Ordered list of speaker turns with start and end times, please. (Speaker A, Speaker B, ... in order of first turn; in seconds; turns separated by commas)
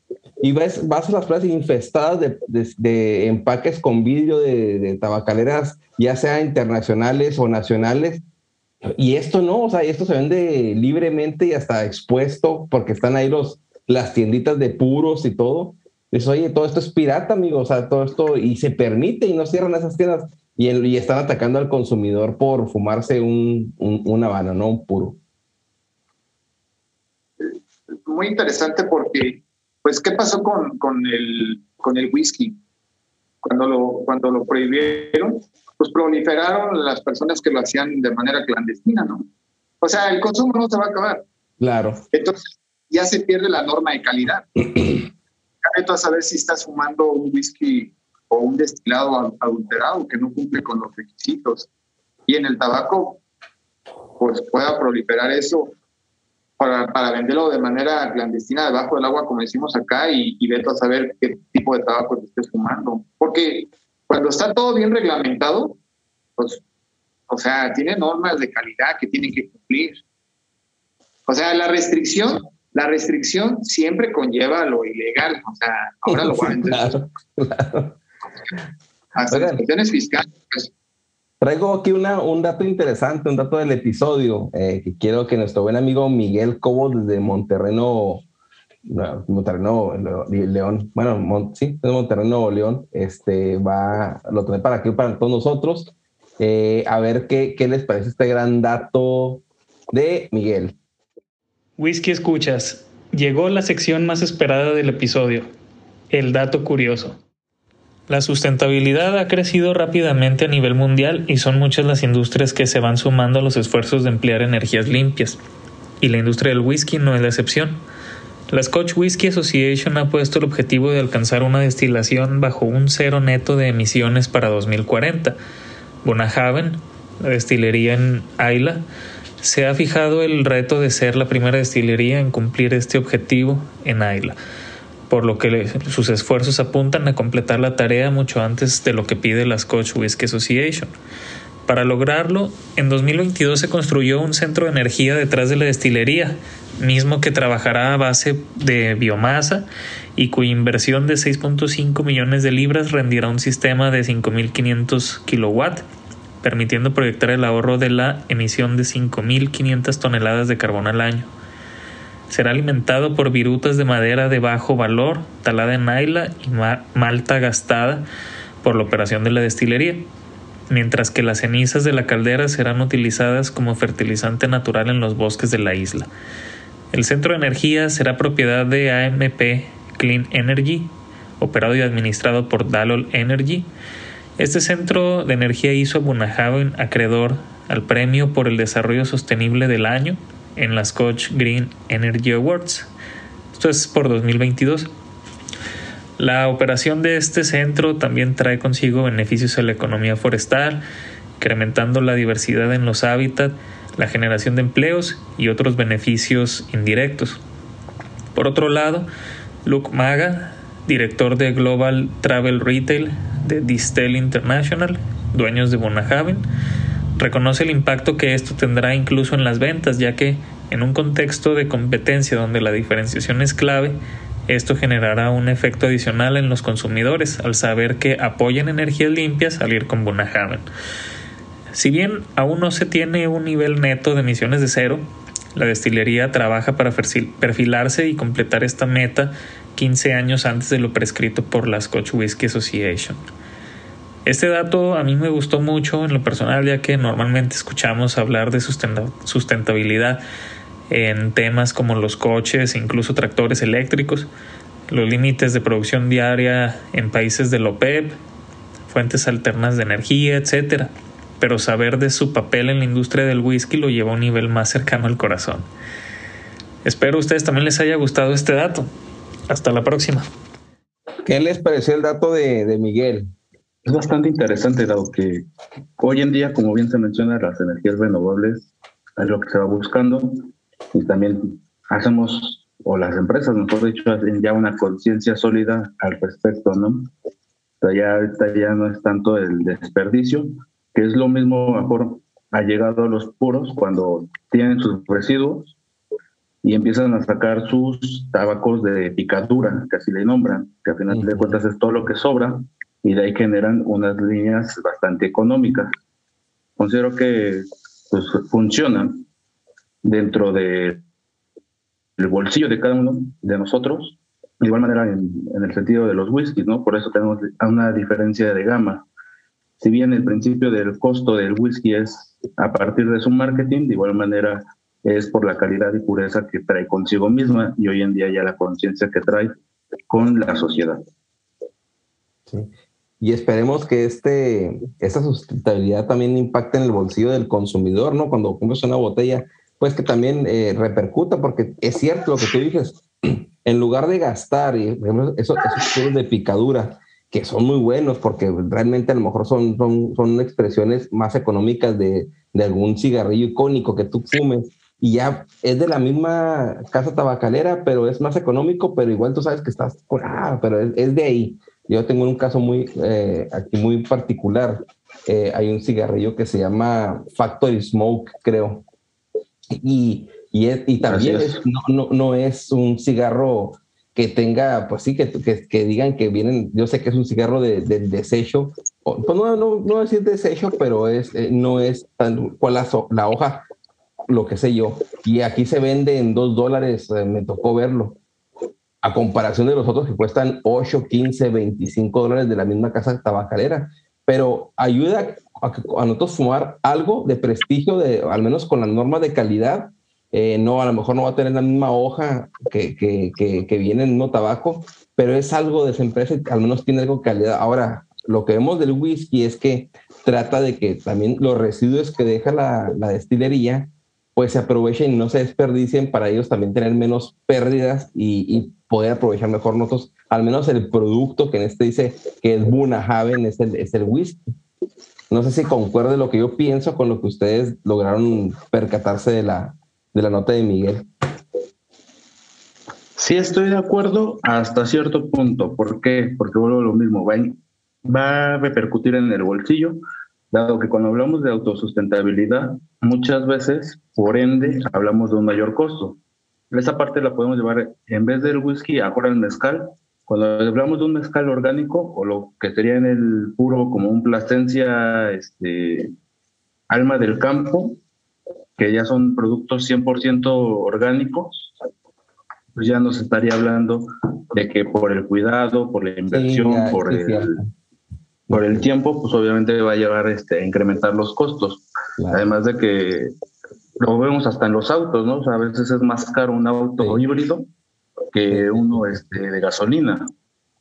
Speaker A: 0.4-8.2, Speaker A: 8.9-25.2, Speaker B: 28.1-32.6, Speaker B: 33.4-39.3, Speaker B: 39.8-41.2, Speaker A: 41.6-42.0, Speaker B: 42.1-45.0, Speaker B: 45.6-51.7, Speaker B: 52.3-53.2, Speaker B: 54.2-55.7, Speaker B: 56.6-65.8, Speaker B: 66.4-66.6, Speaker B: 67.3-70.0, Speaker B: 71.3-77.0, Speaker A: 76.1-78.0, Speaker B: 79.2-80.7, Speaker A: 79.3-79.6, Speaker A: 81.4-88.2, Speaker A: 88.8-100.8, Speaker C: 101.8-105.5, Speaker C: 106.1-107.2, Speaker C: 108.1-115.4, Speaker C: 116.0-117.8, Speaker C: 118.5-125.4, Speaker C: 126.0-128.8, Speaker C: 129.4-134.4, Speaker C: 135.1-140.9, Speaker C: 141.7-155.8, Speaker C: 156.4-161.3, Speaker C: 162.3-168.0, Speaker C: 168.6-170.1, Speaker C: 170.7-176.1, Speaker C: 176.9-183.7, Speaker C: 184.4-192.9, Speaker C: 193.5-194.9, Speaker C: 196.2-200.8, Speaker C: 201.4-207.4, Speaker C: 208.3-209.1, Speaker C: 209.7-216.5, Speaker C: 217.2-224.0, Speaker C: 224.5-230.7, Speaker C: 231.7-235.0, Speaker C: 235.6-243.2, Speaker C: 244.2-250.2, Speaker C: 250.9-254.3, Speaker C: 254.9-258.2, Speaker C: 258.9-265.7, Speaker C: 266.9-268.9, Speaker C: 269.5-270.3, Speaker A: 271.2-273.3, Speaker D: 273.9-275.5, Speaker D: 276.0-287.1, Speaker D: 287.8-295.8, Speaker D: 296.6-305.9, Speaker A: 301.1-301.6, Speaker D: 306.8-309.3, Speaker D: 310.0-311.0, Speaker D: 312.2-319.1, Speaker D: 319.8-329.5, Speaker D: 330.1-331.0, Speaker A: 332.5-368.8, Speaker A: 369.7-383.6, Speaker D: 371.0-371.6, Speaker A: 384.3-388.2, Speaker A: 389.0-424.4, Speaker A: 425.3-431.1, Speaker D: 433.2-440.0, Speaker D: 440.5-446.2, Speaker D: 446.7-456.1, Speaker D: 456.9-458.0, Speaker D: 458.8-461.7, Speaker D: 462.8-467.6, Speaker A: 466.3-467.7, Speaker A: 468.5-468.9, Speaker D: 468.5-473.3, Speaker A: 472.2-472.5, Speaker D: 474.0-477.7, Speaker D: 478.3-480.3, Speaker A: 478.5-479.2